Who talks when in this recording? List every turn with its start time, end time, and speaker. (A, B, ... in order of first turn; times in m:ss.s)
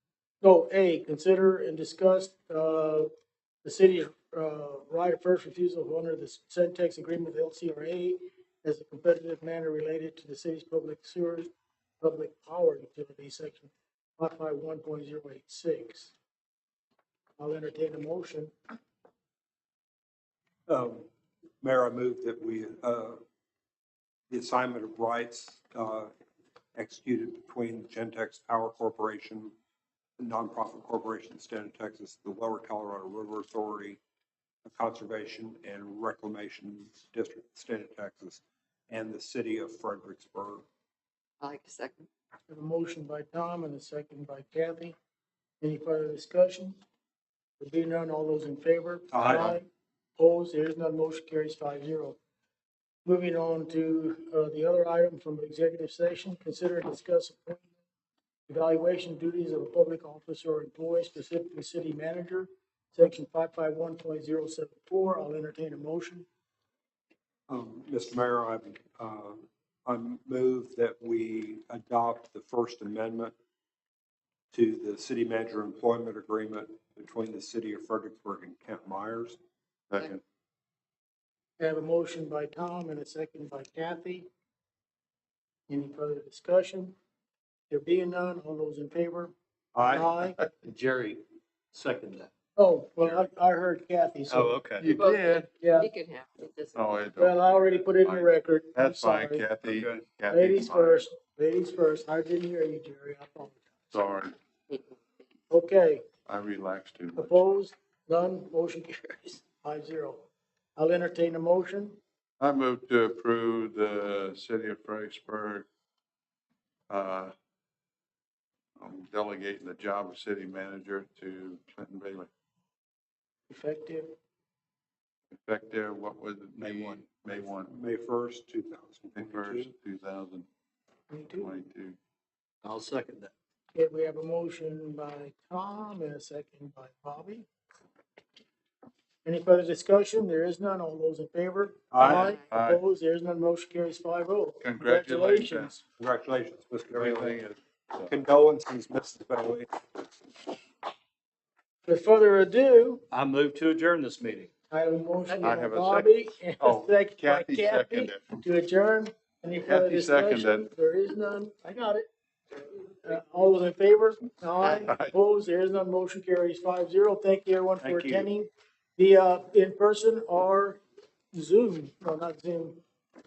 0:00.4-0:03.1 A
0:03.6-0:11.5 A
0:12.0-0:16.1 A
0:17.4-0:18.5 A
0:20.7-0:21.1 B
0:21.6-0:23.2 B
0:24.3-0:26.1 B
0:26.8-0:29.5 B
0:30.2-0:34.0 B
0:34.6-0:40.6 B
0:41.4-0:42.1 C
0:42.5-0:45.0 A
0:45.6-0:46.8 A
0:47.6-0:49.7 A
0:49.1-0:49.6 B
0:50.2-0:52.2 A
0:53.0-0:57.7 A
0:58.5-1:06.3 A
1:07.5-1:13.3 B
1:14.5-1:19.4 B
1:19.9-1:20.2 D
1:21.6-1:24.3 A
1:25.7-1:27.0 A
1:27.7-1:30.4 A
1:29.8-1:30.1 E
1:30.6-1:31.2 E
1:31.7-1:32.3 E
1:32.6-1:34.6 A
1:34.3-1:35.0 E
1:34.8-1:35.5 D
1:34.9-1:36.9 C
1:35.6-1:35.9 A
1:36.8-1:41.0 D
1:37.2-1:39.4 A
1:39.7-1:40.0 E
1:40.3-1:43.6 A
1:43.9-1:44.4 D
1:44.7-1:45.0 C
1:45.5-1:46.1 A
1:46.3-1:47.5 D
1:47.2-1:52.0 A
1:52.4-1:55.7 D
1:56.9-1:57.3 D
1:58.8-2:02.3 D
2:03.5-2:04.2 A
2:05.4-2:07.7 D
2:06.6-2:09.7 B
2:09.2-2:10.5 D
2:11.1-2:11.5 A
2:11.4-2:12.0 D
2:12.6-2:13.3 E
2:13.8-2:17.5 A
2:19.2-2:25.8 A
2:21.9-2:22.3 B
2:22.0-2:22.8 D
2:22.1-2:22.3 C
2:24.6-2:25.7 D
2:26.0-2:27.4 B
2:26.9-2:28.1 D
2:28.1-2:29.7 B
2:31.9-2:33.0 A
2:33.1-2:34.5 E
2:34.7-2:42.1 A
2:35.4-2:38.2 D
2:39.7-2:40.7 D
2:43.0-2:50.8 A
2:44.6-2:45.1 D
2:47.8-2:48.3 E
2:51.3-2:52.8 A